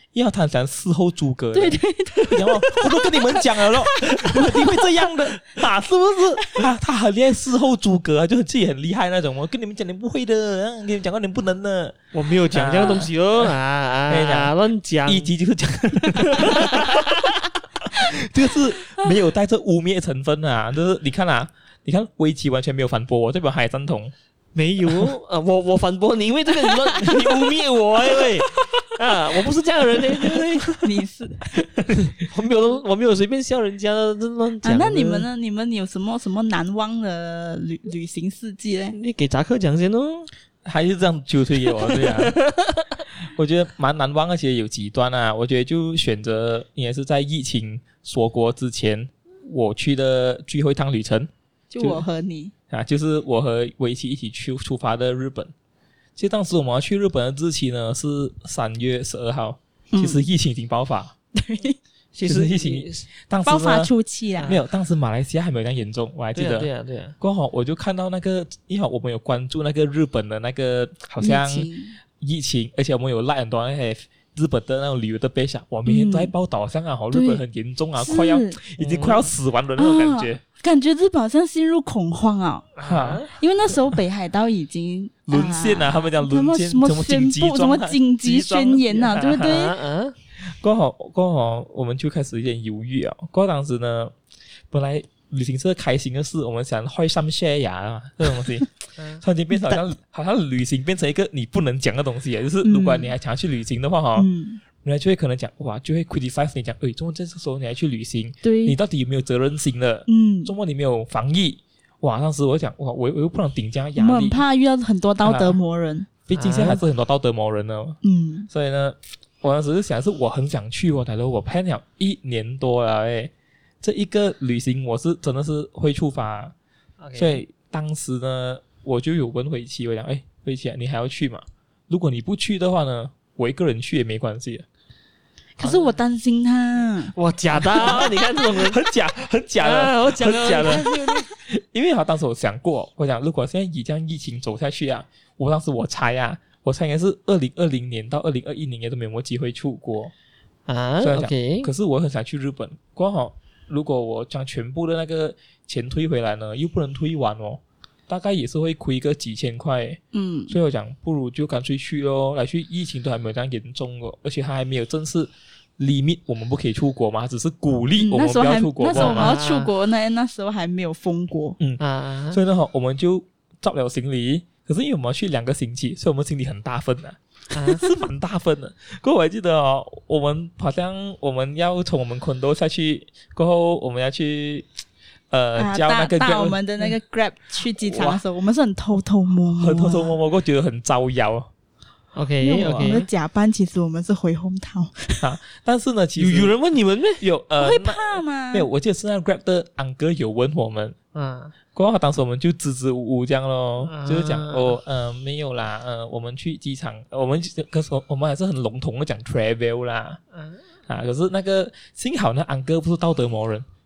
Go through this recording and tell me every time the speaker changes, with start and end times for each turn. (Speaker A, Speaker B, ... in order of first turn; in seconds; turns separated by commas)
Speaker A: 0.1-13.6, Speaker B: 1.5-5.6, Speaker C: 12.1-15.3, Speaker A: 14.1-14.5, Speaker A: 15.1-17.1, Speaker C: 16.3-17.1, Speaker A: 17.8-24.1, Speaker C: 24.5-30.9, Speaker A: 24.9-25.1, Speaker B: 30.8-31.7, Speaker C: 31.9-35.3, Speaker B: 34.6-39.0, Speaker C: 38.9-40.3, Speaker A: 40.6-42.4, Speaker C: 41.8-43.0, Speaker A: 43.2-52.0, Speaker B: 51.7-52.5, Speaker A: 52.7-55.5, Speaker A: 56.1-61.1, Speaker B: 59.9-60.2, Speaker B: 61.3-61.8, Speaker C: 62.1-63.0, Speaker A: 62.2-63.9, Speaker B: 63.4-64.6, Speaker A: 64.5-80.4, Speaker C: 66.3-67.2, Speaker B: 71.2-72.0, Speaker B: 75.8-76.3, Speaker B: 77.1-77.4, Speaker B: 78.0-78.6, Speaker C: 78.8-79.3, Speaker B: 79.8-82.7, Speaker C: 82.8-83.3, Speaker A: 82.8-83.2, Speaker B: 83.3-89.8, Speaker A: 85.3-89.6, Speaker C: 89.4-90.1, Speaker A: 90.4-94.1, Speaker A: 94.7-104.3, Speaker B: 102.6-103.1, Speaker B: 104.2-104.6, Speaker A: 104.8-114.4, Speaker B: 108.4-108.8, Speaker B: 110.1-110.5, Speaker B: 114.0-116.1, Speaker A: 115.2-115.6, Speaker A: 116.2-118.0, Speaker C: 116.3-116.8, Speaker B: 118.0-118.5, Speaker A: 118.5-126.5, Speaker C: 127.0-127.4, Speaker A: 127.2-134.7, Speaker B: 135.6-137.1, Speaker C: 135.6-135.9, Speaker C: 137.1-138.8, Speaker A: 137.6-150.1, Speaker B: 137.7-138.2, Speaker C: 139.6-141.2, Speaker C: 150.7-151.7, Speaker A: 151.0-169.3, Speaker B: 160.1-160.5, Speaker B: 168.0-171.6, Speaker C: 168.9-169.7, Speaker A: 171.6-184.7, Speaker C: 171.8-172.4, Speaker C: 177.5-177.8, Speaker A: 185.3-186.6, Speaker B: 185.5-190.2, Speaker A: 187.8-188.2, Speaker A: 189.6-191.5, Speaker C: 192.1-193.1, Speaker B: 192.4-195.2, Speaker A: 195.2-196.5, Speaker C: 196.2-197.2, Speaker A: 197.2-200.9, Speaker B: 197.6-198.7, Speaker C: 201.1-201.5, Speaker A: 201.7-210.2, Speaker C: 203.8-204.8, Speaker C: 210.3-210.6, Speaker A: 210.9-213.7